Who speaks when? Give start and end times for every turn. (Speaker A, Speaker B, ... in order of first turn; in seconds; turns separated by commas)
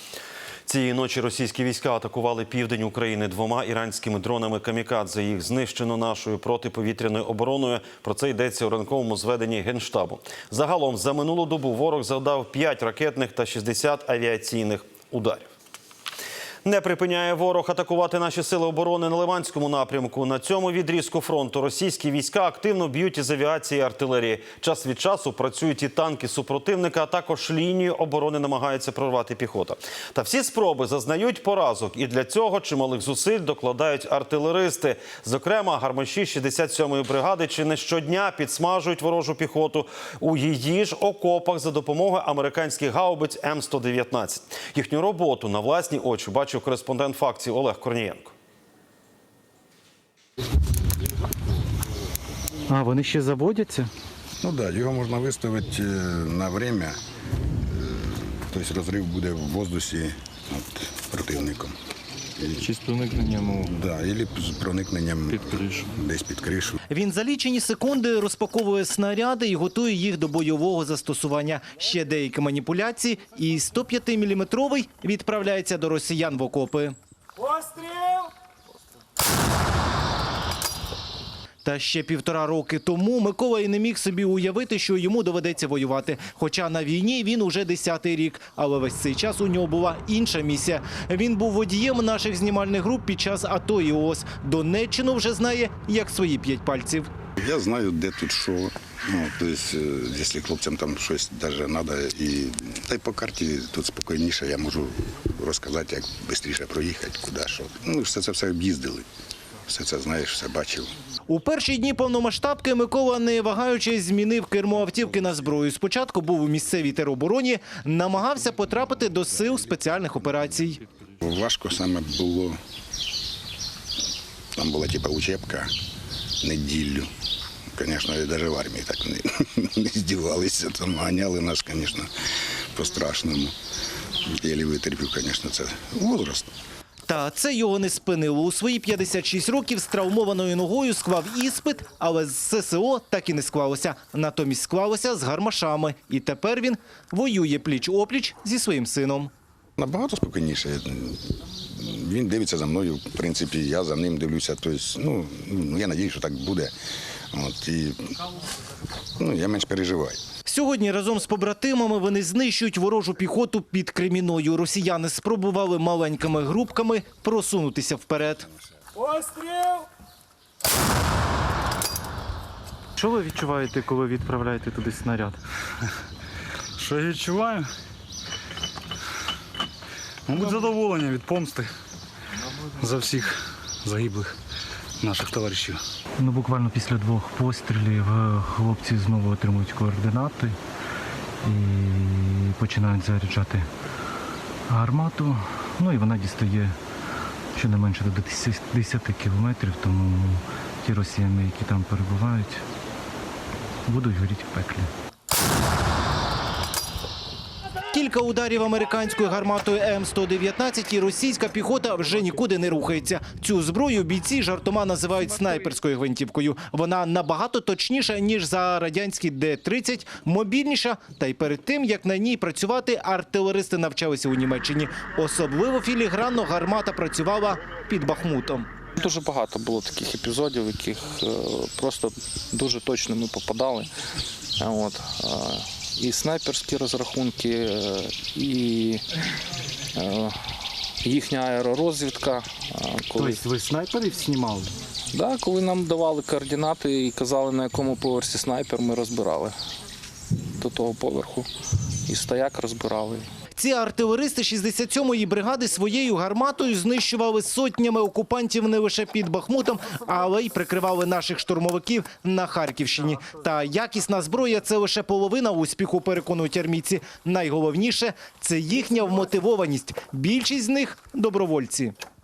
Speaker A: 0.7-15.5, Speaker A: 16.6-48.3, Speaker B: 52.7-53.9, Speaker C: 54.4-57.0, Speaker C: 57.7-61.8, Speaker C: 62.4-62.6, Speaker B: 62.6-63.6, Speaker C: 63.5-66.8, Speaker D: 66.9-77.0, Speaker D: 81.6-97.1, Speaker C: 97.4-109.1, Speaker C: 109.7-110.9, Speaker D: 111.3-120.8, Speaker C: 121.0-122.6, Speaker C: 124.6-125.7, Speaker C: 126.4-127.1, Speaker C: 127.7-132.1, Speaker C: 132.7-133.5, Speaker C: 134.3-136.5, Speaker D: 137.1-149.3, Speaker C: 149.8-156.7, Speaker C: 157.3-158.2, Speaker C: 159.2-160.2, Speaker D: 160.4-168.5, Speaker B: 173.0-175.4, Speaker E: 176.8-177.7, Speaker E: 180.3-181.7, Speaker E: 182.8-184.3, Speaker E: 185.0-185.8, Speaker B: 186.2-190.6, Speaker B: 191.4-193.7, Speaker B: 194.7-196.8, Speaker B: 197.6-202.6, Speaker B: 203.9-204.9, Speaker D: 207.9-228.7, Speaker F: 229.0-233.9, Speaker F: 234.6-239.0, Speaker F: 239.9-240.3, Speaker F: 241.0-243.4, Speaker B: 243.2-244.7, Speaker F: 245.1-249.6, Speaker F: 250.6-251.5, Speaker F: 252.1-253.3, Speaker D: 253.6-271.9